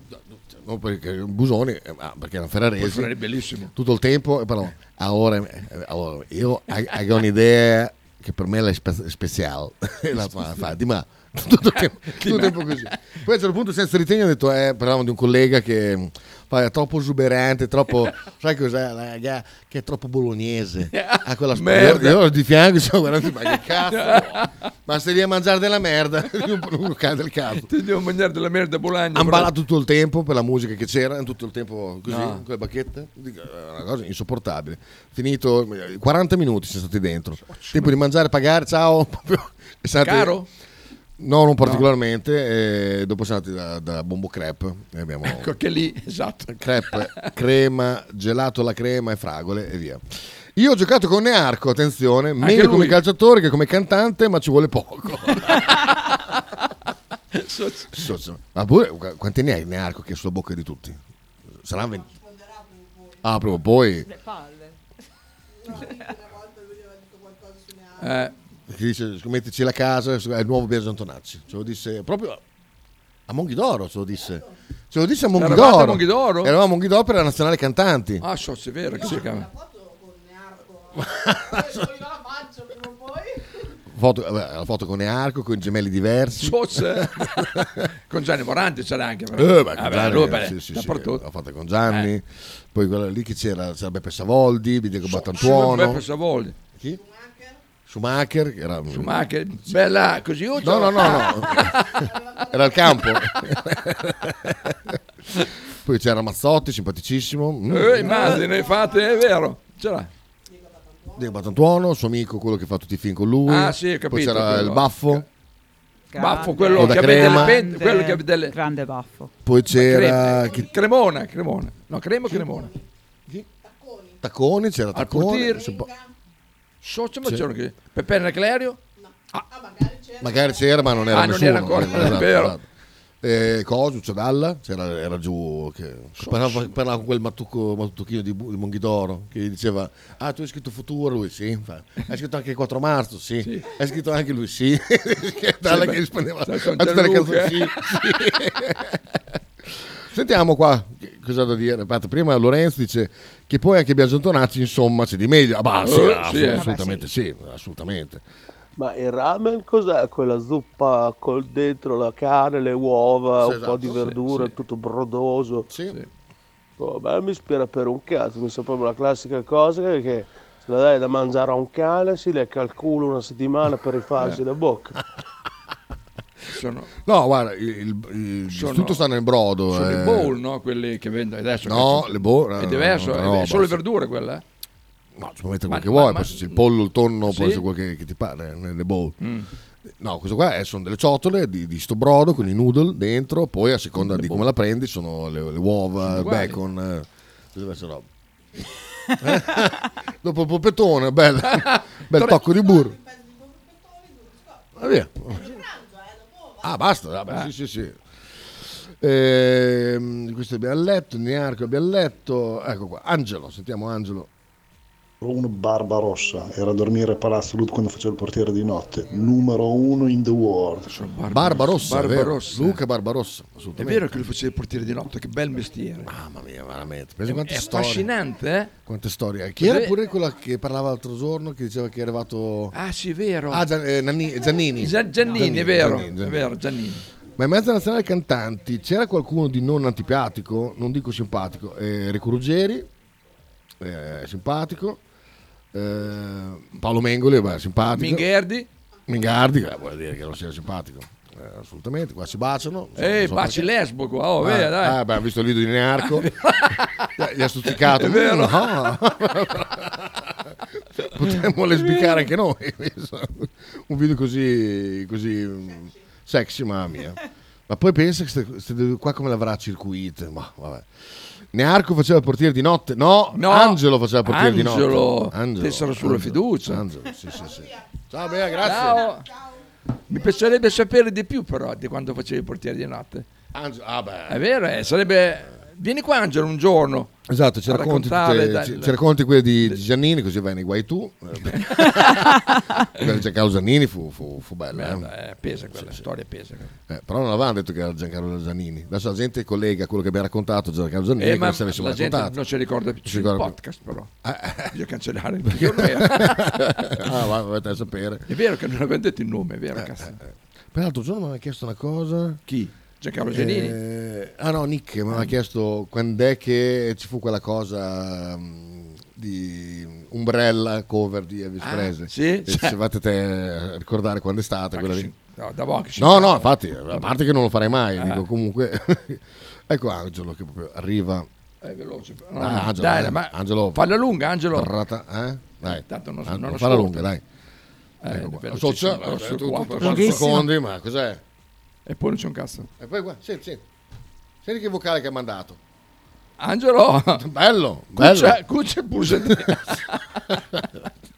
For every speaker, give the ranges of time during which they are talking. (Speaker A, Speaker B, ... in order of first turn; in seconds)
Speaker A: 0.1-3.1, 3.7-27.7, 29.1-40.4, 41.2-45.5, 46.5-50.0, 50.5-55.7, 57.9-61.0, 61.6-62.1, 63.2-64.1, 68.7-72.4, 73.3-78.2, 80.9-82.0, 83.9-87.8, 89.3-96.0, 97.8-99.1, 100.6-101.9, 102.4-104.9, 105.8-108.5, 111.1-115.2, 116.7-117.6, 119.4-120.7, 124.2-125.9, 130.2-132.6, 133.2-149.0, 149.7-158.2, 163.4-164.1, 165.7-166.0, 177.0-180.3, 181.6-183.8, 185.2-189.2, 190.0-198.1, 199.2-203.0, 204.8-205.5, 206.6-208.0, 209.0-214.3, 221.3-224.2, 226.0-228.1, 228.8-232.7, 233.5-236.5, 237.4-242.9, 243.8-245.0, 245.7-248.2, 249.1-253.7, 254.4-256.3, 257.2-270.9, 271.5-279.1, 283.5-284.4, 287.3-295.1, 295.7-296.0, 296.9-302.4, 303.0-303.5, 304.2-304.8, 305.4-308.3, 309.8-310.1, 310.7-312.4, 313.3-325.1, 326.0-331.3, 332.4-333.8, 334.5-337.2, 338.1-341.2, 342.8-343.6, 344.4-345.6, 347.2-348.4, 349.1-349.6
Speaker B: 2.8-3.7, 12.1-12.9, 20.9-22.2, 23.8-24.5, 27.6-29.5, 32.1-32.4, 37.4-37.9, 40.0-40.5, 45.2-47.3, 52.4-53.0, 55.4-56.4, 57.3-58.0, 68.0-68.3, 75.3-76.5, 78.2-79.5, 86.4-87.3, 88.1-91.2, 95.0-96.6, 98.9-102.0, 107.7-110.1, 113.5-115.2, 116.2-118.5, 119.7-122.7, 124.9-125.8, 126.8-128.8, 131.1-132.6, 136.2-136.7, 143.4-143.7, 145.6-147.7, 155.8-156.6, 163.9-164.4, 176.5-176.9, 178.5-179.0, 179.7-184.4, 185.7-186.6, 187.2-187.6, 189.2-189.5, 194.0-194.4, 196.0-196.6, 201.5-202.4, 220.9-222.8, 223.8-226.1, 227.2-228.7, 229.6-229.9, 232.7-233.7, 234.8-237.0, 247.9-248.7, 253.0-255.0, 256.0-257.1, 257.7-258.9, 273.3-276.8, 278.6-279.2, 280.1-283.3, 284.3-287.1, 287.7-289.0, 291.5-292.1, 294.7-296.7, 301.2-304.1, 304.7-307.1, 308.3-310.2, 312.5-313.8, 321.6-322.8, 324.7-327.1, 328.0-328.2, 331.6-334.7, 335.6-337.1, 338.0-340.3, 341.9-342.7, 346.4-347.2, 347.9-350.0
Speaker C: 64.0-64.8, 116.1-119.3, 156.4-157.1, 339.8-340.5
Speaker D: 158.8-165.7, 166.8-174.9
Speaker E: 215.2-220.9